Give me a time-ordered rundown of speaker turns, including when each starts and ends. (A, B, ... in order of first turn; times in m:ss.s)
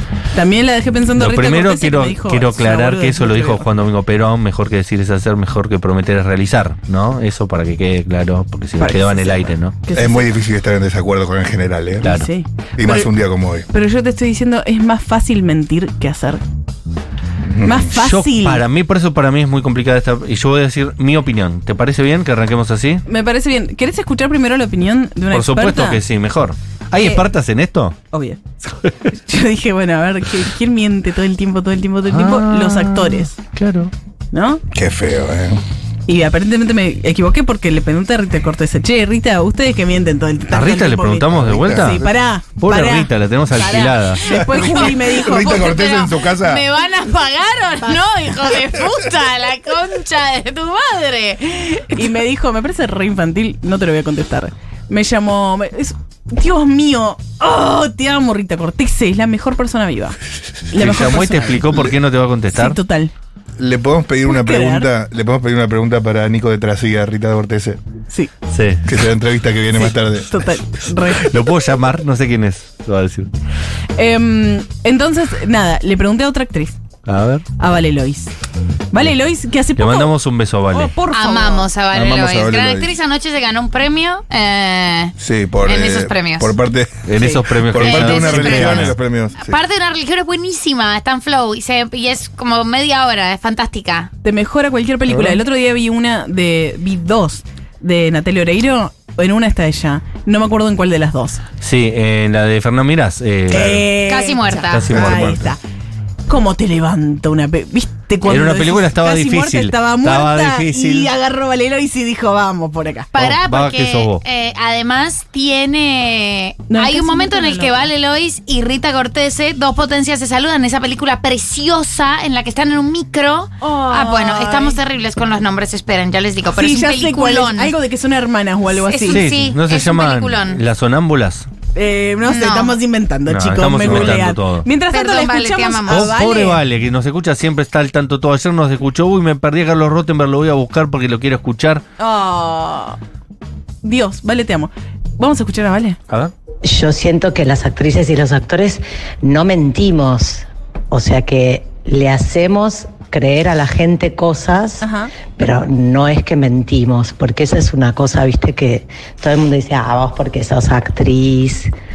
0:00.3-0:03.7 A
0:01.2-0:09.8 B
0:08.8-0:10.3 A
0:09.9-0:12.1 C
0:12.0-0:12.3 B
0:12.0-0:13.1 A
0:12.8-0:13.7 C
0:13.7-0:16.4 A
0:17.5-0:17.9 C
0:17.6-0:18.6 A
0:17.9-0:23.0 B
0:23.1-0:26.0 A
0:25.3-0:28.0 B
0:27.0-0:27.2 A
0:28.1-0:33.4 A
0:32.1-0:33.9 B
0:34.3-0:34.6 A
0:34.7-0:35.6 C
0:36.1-0:45.7 A
0:40.5-0:44.2 B
0:41.3-0:42.1 C
0:43.6-0:52.0 D
0:44.3-0:46.6 C
0:52.0-1:00.2 A
1:00.7-1:01.8 A
1:00.8-1:02.8 B
1:02.5-1:03.1 A
1:03.6-1:07.8 C
1:04.2-1:04.9 A
1:08.5-1:08.9 B
1:08.9-1:10.3 C
1:09.7-1:11.4 A
1:11.1-1:13.3 B
1:14.0-1:16.8 A
1:17.1-1:17.5 B
1:17.6-1:18.3 A
1:18.9-1:20.2 A
1:19.8-1:21.0 B
1:20.7-1:21.7 A
1:21.1-1:26.5 D
1:21.9-1:22.9 C
1:25.2-1:27.0 C
1:27.0-1:29.0 B
1:27.2-1:27.5 A
1:27.7-1:29.6 C
1:27.8-1:34.1 D
1:34.2-1:41.4 A
1:35.1-1:35.4 B
1:41.6-1:43.9 B
1:43.5-1:45.6 A
1:44.0-1:44.9 D
1:44.7-1:45.4 B
1:44.9-1:45.5 C
1:46.3-1:53.1 A
1:48.3-1:51.1 B
1:53.1-2:07.8 D
1:53.2-1:54.2 B
1:56.7-1:57.9 A
2:03.6-2:04.8 A
2:06.6-2:09.3 A
2:08.8-2:10.6 D
2:09.1-2:11.5 B
2:11.7-2:16.6 A
2:12.2-2:12.8 D
2:13.3-2:14.7 B
2:14.9-2:16.0 D
2:15.9-2:21.8 B
2:22.0-2:23.0 A
2:23.8-2:26.0 A
2:26.6-2:34.9 E
2:34.8-2:35.1 A
2:35.4-2:41.7 E